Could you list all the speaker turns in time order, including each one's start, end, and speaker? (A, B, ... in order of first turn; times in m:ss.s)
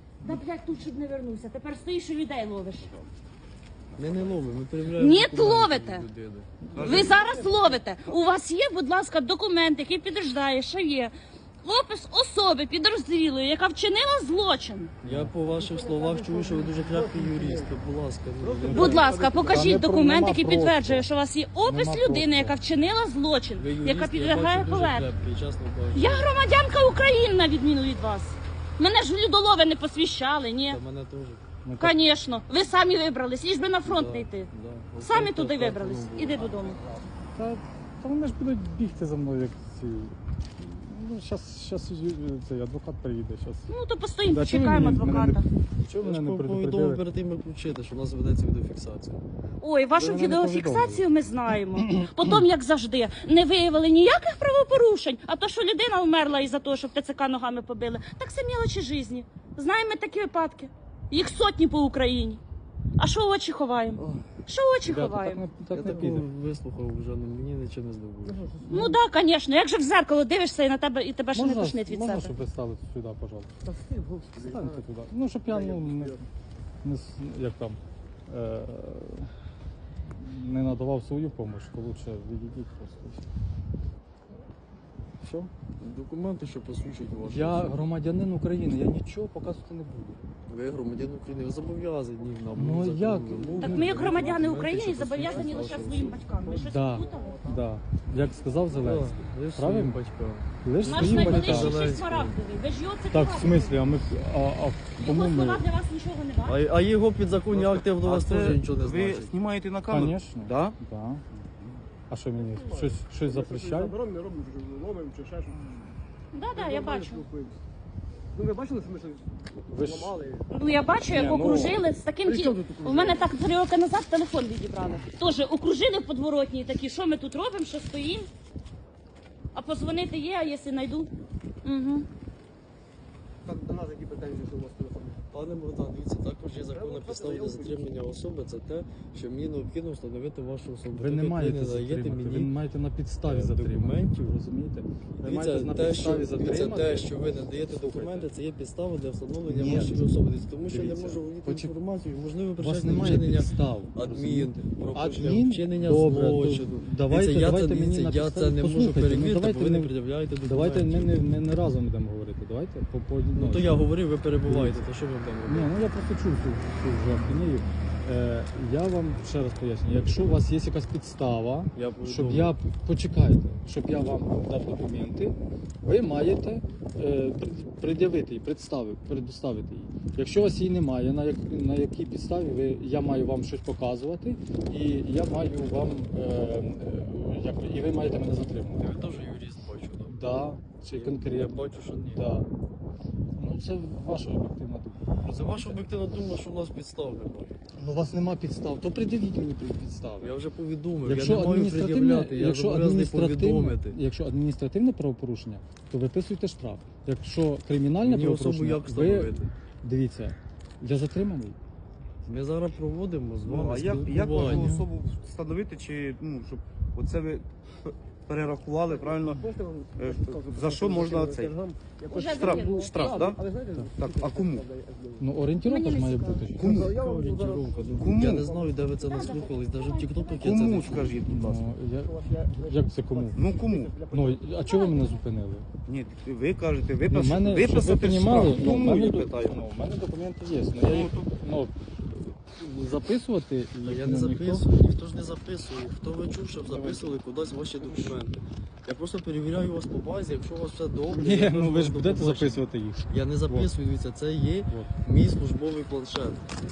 0:00.2-0:02.9 A
0:04.0-0:06.7 B
0:05.0-0:06.1 A
0:06.7-0:07.3 C
0:06.8-0:07.8 D
0:06.8-0:15.0 A
0:15.0-0:15.3 E
0:15.0-0:19.0 B
0:15.5-0:17.7 D
0:18.4-0:19.8 D
0:18.7-0:21.1 E
0:18.7-0:25.1 A
0:21.6-0:22.6 E
0:23.6-0:26.3 B
0:25.9-0:30.8 A
0:30.7-0:31.4 B
0:31.6-0:32.0 E
0:31.8-0:36.8 A
0:33.8-0:36.6 B
0:37.3-0:43.7 E
0:43.7-0:45.4 A
0:44.3-0:47.0 E
0:45.9-0:49.2 B
0:49.6-1:02.4 A
0:50.0-0:52.2 E
1:03.0-1:05.4 A
1:04.0-1:04.3 B
1:04.8-1:06.3 E
1:05.7-1:08.6 B
1:08.3-1:09.0 D
1:08.7-1:12.4 A
1:11.3-1:13.5 E
1:13.6-1:14.8 D
1:14.4-1:16.2 E
1:15.4-1:16.2 D
1:16.8-1:19.3 E
1:20.1-1:23.2 E
1:25.2-1:25.5 E
1:25.8-1:27.9 B
1:27.2-1:30.3 E
1:30.5-1:36.3 B
1:32.5-1:34.4 E
1:33.6-1:37.4 A
1:35.2-1:37.6 D
1:36.6-1:40.0 E
1:38.7-1:42.4 B
1:40.6-1:41.8 E
1:40.8-1:44.1 A
1:43.1-1:45.7 E
1:45.0-1:46.6 A
1:46.4-1:49.4 B
1:47.5-1:50.8 C
1:49.9-1:51.2 E
1:51.4-1:51.8 C
1:52.1-1:54.0 E
1:52.4-1:55.7 D
1:56.3-1:57.3 A
1:56.5-1:57.6 D
1:58.3-2:00.5 D
1:59.7-2:00.1 E
2:00.5-2:08.3 A
2:01.1-2:01.8 E
2:02.2-2:03.3 D
2:09.5-2:11.1 A
2:11.6-2:12.1 A
2:13.4-2:15.2 D
2:15.3-2:22.6 B
2:16.7-2:17.9 D
2:20.9-2:28.3 E
2:23.3-2:24.2 B
2:25.2-2:41.2 B
2:29.5-2:30.1 E
2:30.7-2:31.7 E
2:32.6-2:43.8 E
2:43.4-2:45.7 B
2:44.4-2:44.9 E
2:45.4-3:09.1 E
2:51.7-2:52.6 B
3:08.8-3:12.3 B
3:10.1-3:12.5 E
3:13.4-3:15.9 E
3:15.2-3:17.5 B
3:17.8-3:20.4 E
3:20.2-3:24.0 B
3:21.0-3:31.6 E
3:28.0-3:29.5 B
3:32.2-3:34.8 B
3:33.4-3:41.6 C
3:33.8-3:34.9 E
3:38.8-3:45.3 D
3:42.1-3:43.2 A
3:42.2-3:44.7 C
3:45.2-3:46.9 E
3:45.6-3:46.6 A
3:46.6-3:47.0 C
3:46.6-3:49.1 D
3:46.8-3:51.5 B
3:47.9-3:48.5 C
3:49.0-3:51.1 A
3:50.4-3:51.7 C
3:51.2-3:53.4 E
3:51.9-3:54.6 D
3:53.4-3:54.0 C
3:54.0-3:55.7 E
3:54.6-3:55.2 A
3:55.8-3:59.6 C
3:57.1-4:04.7 E
4:00.8-4:01.3 C
4:03.8-4:16.4 B
4:06.6-4:07.2 E
4:07.7-4:08.2 E
4:11.1-4:13.7 E